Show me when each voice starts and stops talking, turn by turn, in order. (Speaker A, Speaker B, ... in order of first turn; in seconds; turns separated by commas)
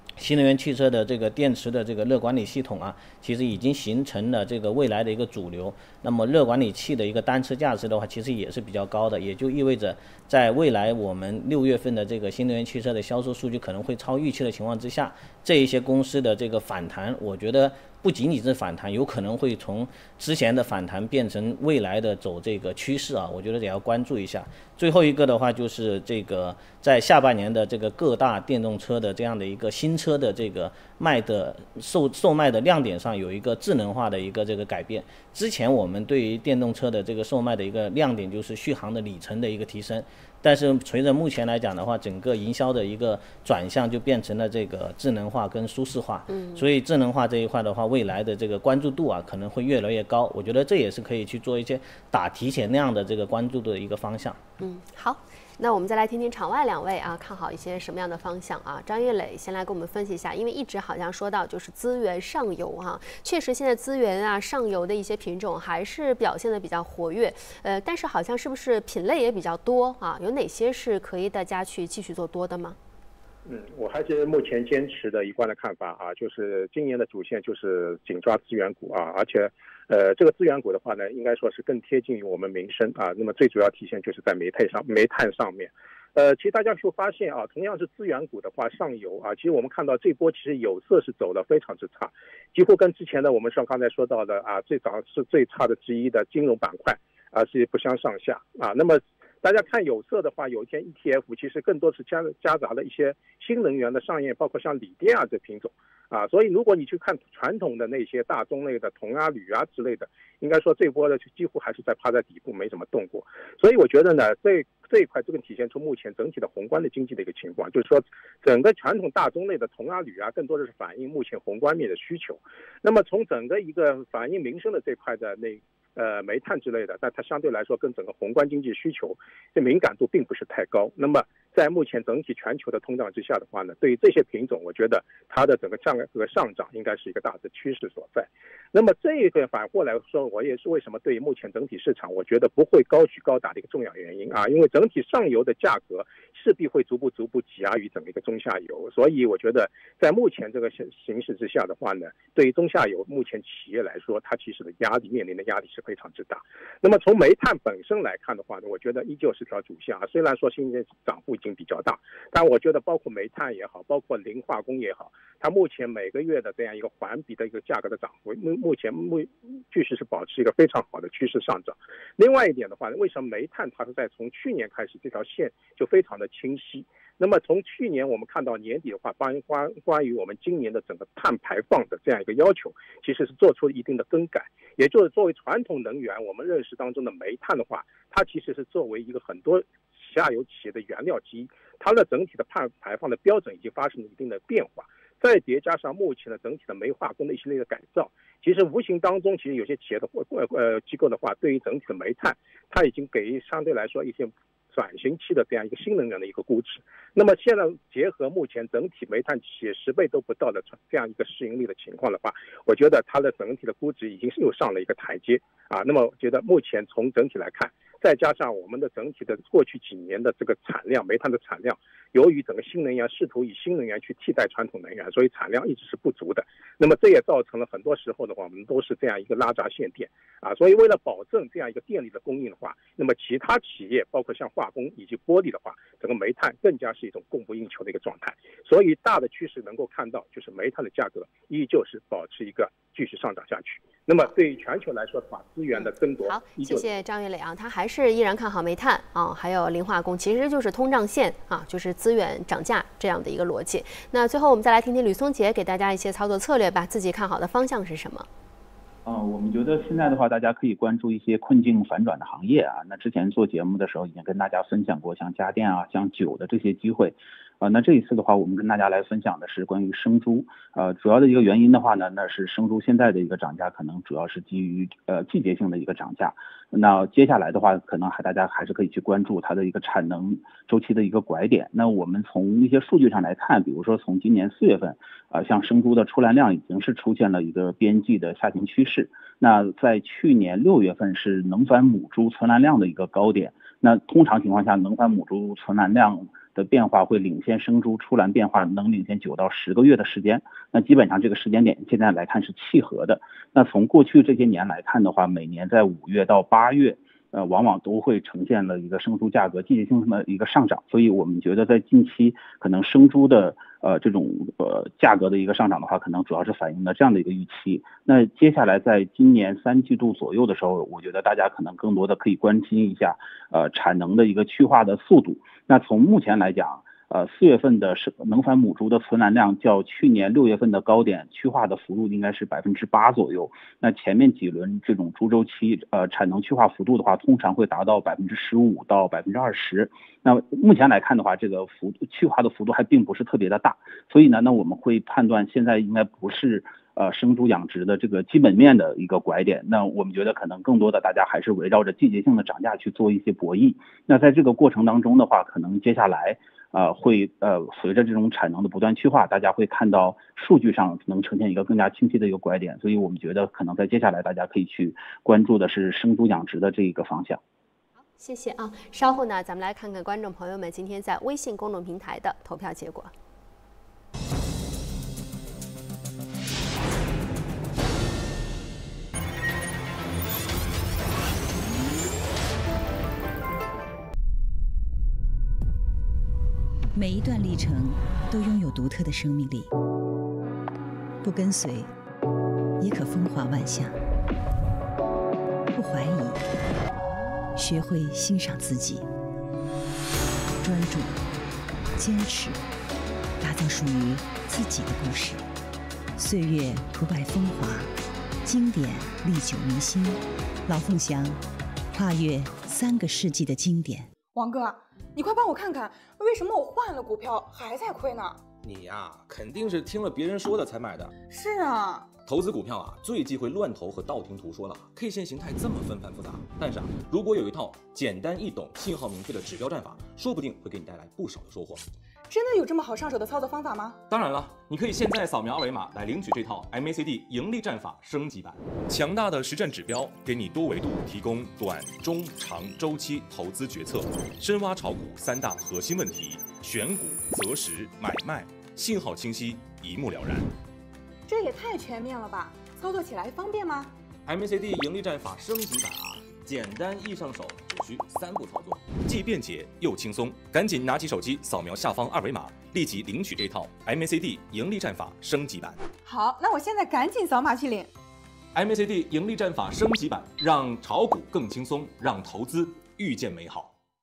Speaker A: 0.2-54.4, Speaker B: 46.3-46.6, Speaker B: 54.6-72.8, Speaker C: 73.5-246.8, Speaker B: 245.7-258.3, Speaker D: 259.1-367.4, Speaker B: 368.2-373.1, Speaker E: 386.9-389.7, Speaker E: 391.2-391.9, Speaker E: 392.8-394.0, Speaker E: 395.7-396.4, Speaker E: 397.6-399.1, Speaker E: 400.6-401.2, Speaker E: 402.0-402.6, Speaker E: 403.4-405.5, Speaker E: 406.2-407.9, Speaker E: 408.4-411.4, Speaker E: 411.9-414.1, Speaker F: 414.3-418.4, Speaker G: 418.6-421.1, Speaker F: 421.3-422.1, Speaker G: 422.2-431.9, Speaker F: 432.3-434.0, Speaker G: 434.1-450.5, Speaker F: 451.3-453.9, Speaker G: 454.3-465.8, Speaker F: 466.0-467.9, Speaker G: 468.6-473.8